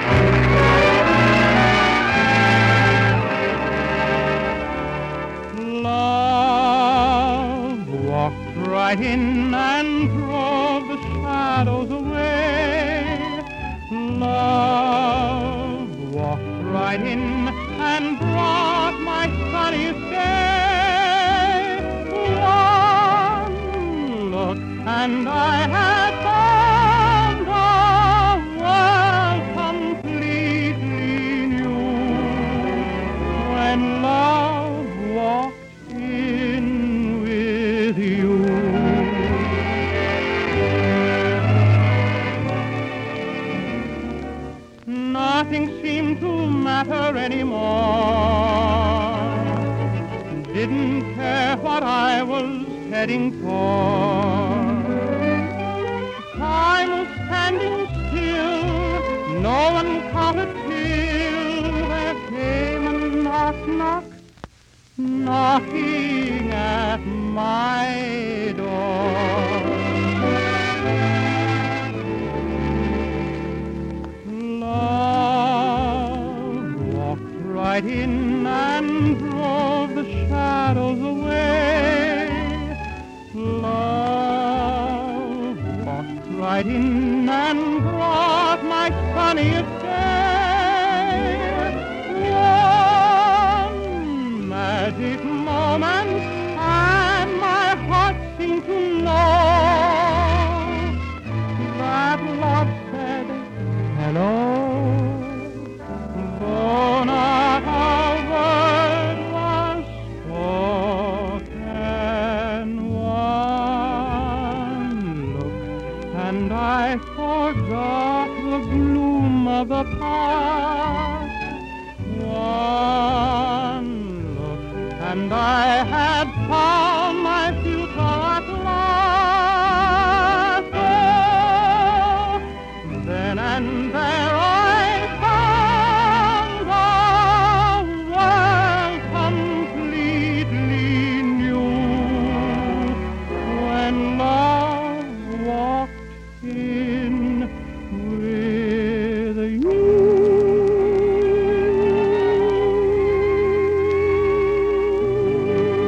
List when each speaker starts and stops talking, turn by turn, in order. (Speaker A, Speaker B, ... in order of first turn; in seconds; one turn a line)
Speaker A: 5.5-39.6
Speaker A: 44.9-49.6
Speaker A: 50.3-55.0
Speaker A: 56.3-64.2
Speaker A: 65.0-69.9
Speaker A: 74.2-82.8
Speaker A: 83.3-101.0
Speaker A: 101.6-121.4
Speaker A: 122.0-152.9